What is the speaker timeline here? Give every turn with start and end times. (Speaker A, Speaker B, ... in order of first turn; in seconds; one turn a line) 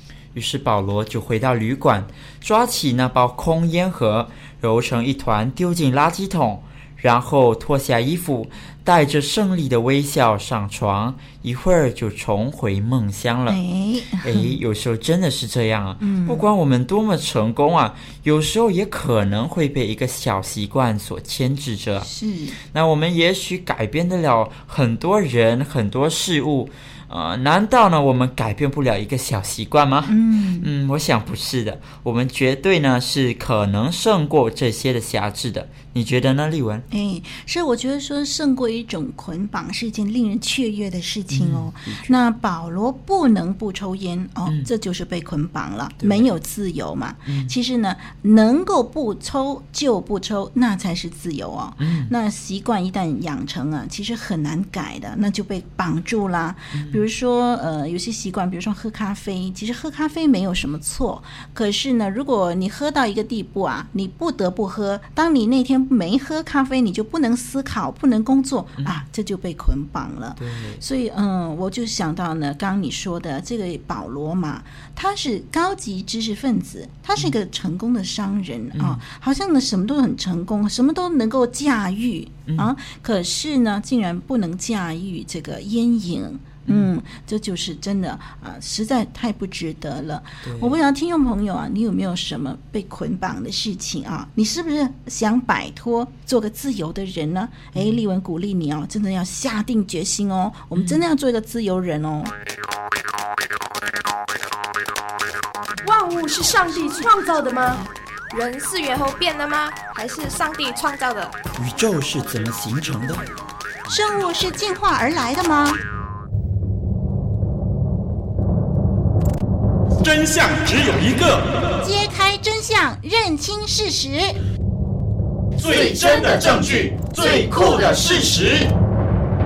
Speaker A: 0.3-13.6
Speaker B: 13.5-14.5
Speaker A: 14.2-22.1
Speaker B: 16.0-16.4
Speaker B: 22.0-22.6
Speaker A: 22.7-36.9
Speaker B: 30.1-30.7
Speaker B: 36.9-102.3
Speaker A: 41.3-42.1
Speaker A: 46.0-46.3
Speaker A: 47.3-47.5
Speaker A: 51.8-52.1
Speaker A: 56.7-57.0
Speaker A: 70.4-70.8
Speaker A: 78.7-79.0
Speaker A: 90.4-90.8
Speaker A: 97.7-98.0
Speaker A: 100.7-101.0
Speaker C: 105.8-111.3
Speaker A: 111.5-113.2
Speaker B: 113.9-115.8
Speaker D: 120.0-121.8
Speaker B: 121.8-124.3
Speaker D: 125.6-128.7